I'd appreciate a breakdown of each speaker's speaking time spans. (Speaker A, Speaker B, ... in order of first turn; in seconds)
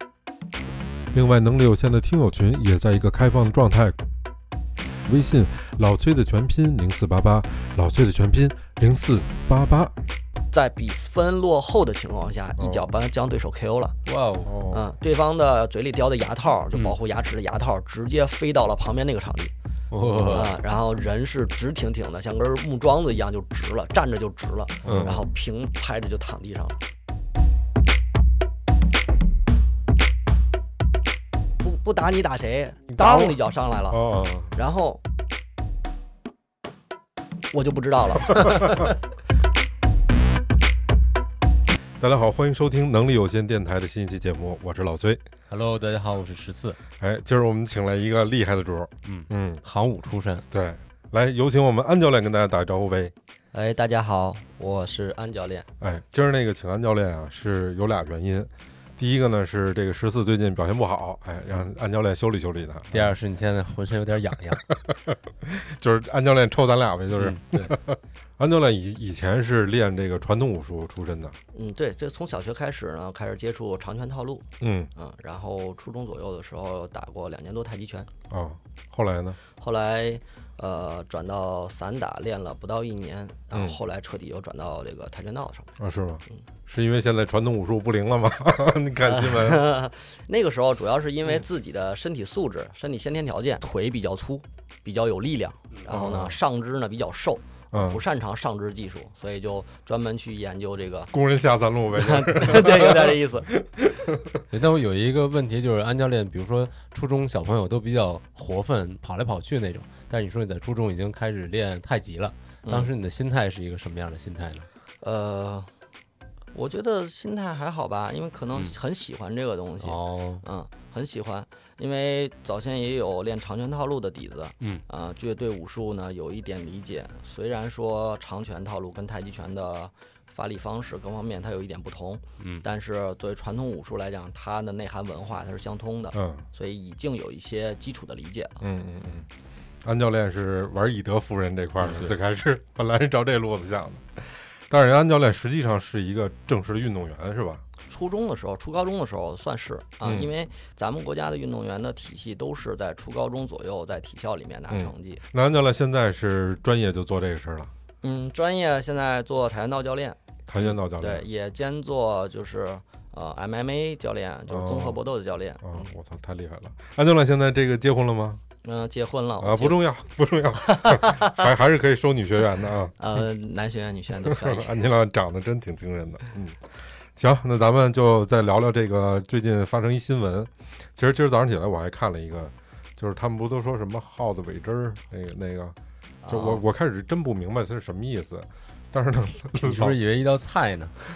Speaker A: 1.1-4.0, 5.0-10.0, 12.6-12.9, 14.4-14.9, 24.8-25.3, 32.9-34.5, 42.0-45.2, 47.0-49.6, 50.5-53.1, 55.8-63.1, 64.8-71.4, 74.6-74.9, 78.3-79.4, 83.5-83.8, 85.8-89.7, 95.9-96.4, 97.7-98.0, 101.1-104.4, 136.1-136.5, 138.6-139.3, 139.8-147.6, 150.0-150.3, 154.7-157.7, 160.5-161.3, 164.5-165.0, 165.6-168.4, 169.4-172.9, 174.2-185.8, 186.3-190.0
Speaker B: 10.5-13.9, 14.7-19.5, 20.3-26.8, 31.6-34.0, 34.5-35.0, 37.5-38.6, 53.5-55.7, 71.5-78.1, 79.6-85.7, 89.1-101.1, 101.9-103.5, 112.7-112.9, 115.0-115.7, 116.5-138.6, 147.9-155.2, 158.0-160.2, 160.9-165.9, 168.6-169.8, 170.7-171.5, 173.0-174.8, 186.2-186.6
Speaker C: 14.1-14.5, 19.9-20.6, 24.9-25.2, 45.5-46.8, 49.0-50.5, 62.9-64.7, 67.1-67.7, 104.5-114.7, 119.8-120.4, 141.9-142.1, 189.6-190.9